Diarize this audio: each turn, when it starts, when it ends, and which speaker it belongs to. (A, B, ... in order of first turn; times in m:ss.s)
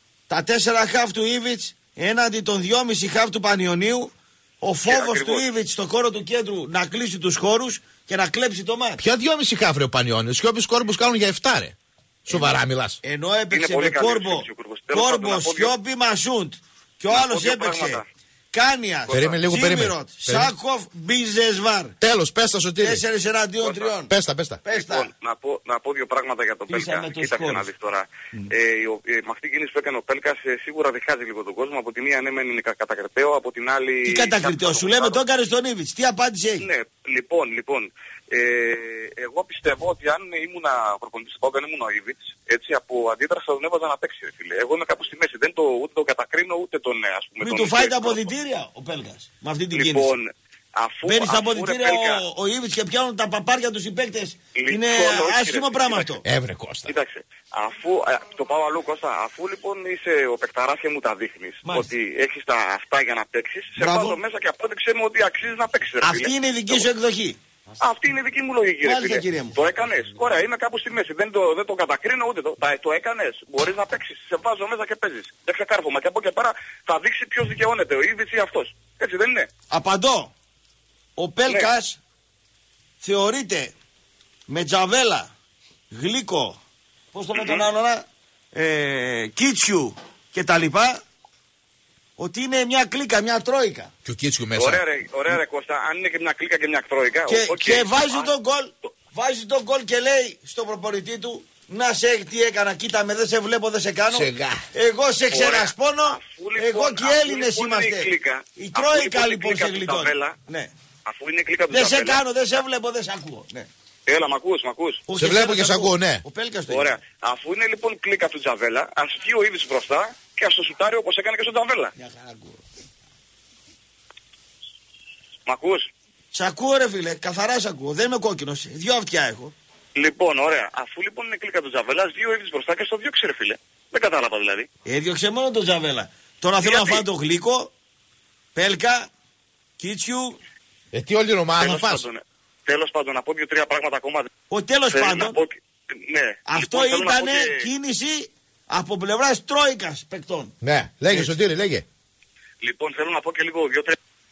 0:00.3-0:09.0 A
0:04.9-0:05.5 B
0:09.0-0:13.0 C
0:13.0-0:22.0 A
0:13.5-0:15.8 B
0:17.1-0:18.0 B
0:19.1-0:19.3 B
0:19.1-0:20.5 C
0:22.0-0:23.0 C
0:22.8-0:24.1 A
0:23.6-0:23.9 B
0:24.1-0:24.6 C
0:24.6-0:25.1 A
0:24.7-0:35.2 B
0:26.7-0:27.7 A
0:34.0-0:36.6 A
0:36.6-0:48.3 B
0:47.4-0:50.1 A
0:49.7-0:52.2 B
0:51.1-0:56.2 A
0:54.6-0:56.1 B
0:56.2-0:56.9 C
0:56.9-1:06.9 B
1:03.8-1:04.2 A
1:06.0-1:07.4 A
1:07.8-1:19.5 B
1:08.8-1:09.6 A
1:19.7-1:20.3 A
1:21.2-1:22.0 A
1:23.0-1:23.7 A
1:24.5-1:25.3 A
1:25.9-1:26.6 A
1:27.1-1:31.0 A
1:27.4-1:27.6 B
1:32.2-1:33.9 A
1:34.0-1:34.8 C
1:34.6-1:38.3 B
1:37.3-1:50.7 A
1:44.1-1:44.6 C
1:45.3-1:50.4 B
1:51.1-1:52.2 B
1:51.7-1:53.7 A
1:54.1-1:55.0 B
1:55.1-1:56.9 A
1:55.2-1:56.2 C
1:56.7-2:01.9 B
2:02.0-2:02.6 A
2:05.5-2:05.9 B
2:06.3-2:09.5 A
2:10.0-2:14.7 B
2:14.9-2:17.7 A
2:16.6-2:17.0 B
2:18.6-2:19.1 A
2:19.8-2:20.4 A
2:20.9-2:22.1 C
2:21.6-2:24.3 B
2:24.5-2:25.4 A
2:24.9-2:27.6 B
2:26.5-2:30.6 A
2:30.6-2:31.8 C
2:32.6-2:34.0 B